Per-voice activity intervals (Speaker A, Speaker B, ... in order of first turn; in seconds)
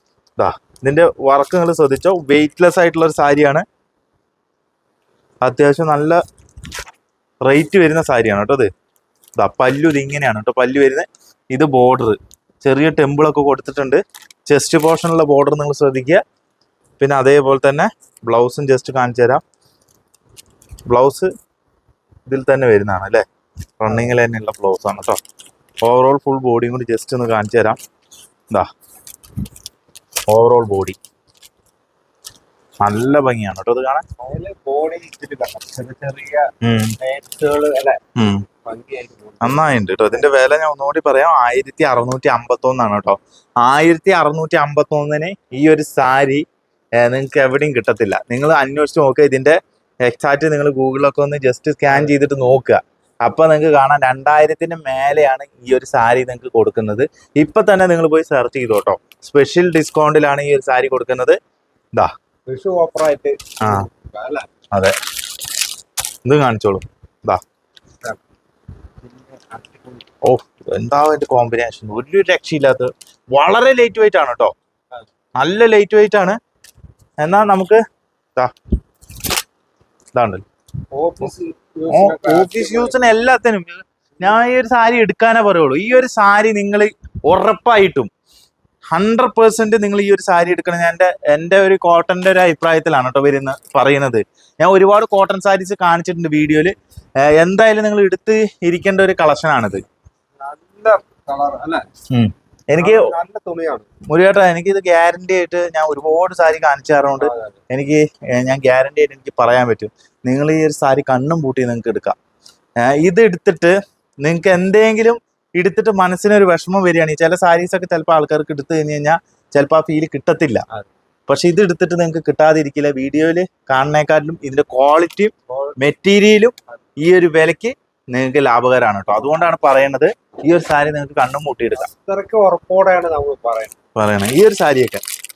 Speaker A: 0.4-3.6, 5.4-6.2, 7.4-8.7, 9.4-16.2, 17.0-19.4, 20.9-21.3, 22.3-23.2, 23.8-25.2, 25.8-27.8, 30.3-31.0, 32.8-34.0, 36.6-37.0, 38.2-38.4, 39.4-46.4, 47.0-61.4, 66.2-67.4, 70.2-74.5, 75.4-76.4, 77.2-77.8, 80.1-80.4, 81.9-88.1, 88.9-99.8, 102.1-103.1, 104.1-112.1, 112.8-120.6, 121.3-131.9, 133.9-135.0
Speaker B: 34.2-38.0, 38.6-40.3, 62.5-64.5, 69.0-70.0, 80.9-83.0, 100.4-101.8, 102.8-103.9, 107.2-107.6, 125.5-125.8, 131.8-133.7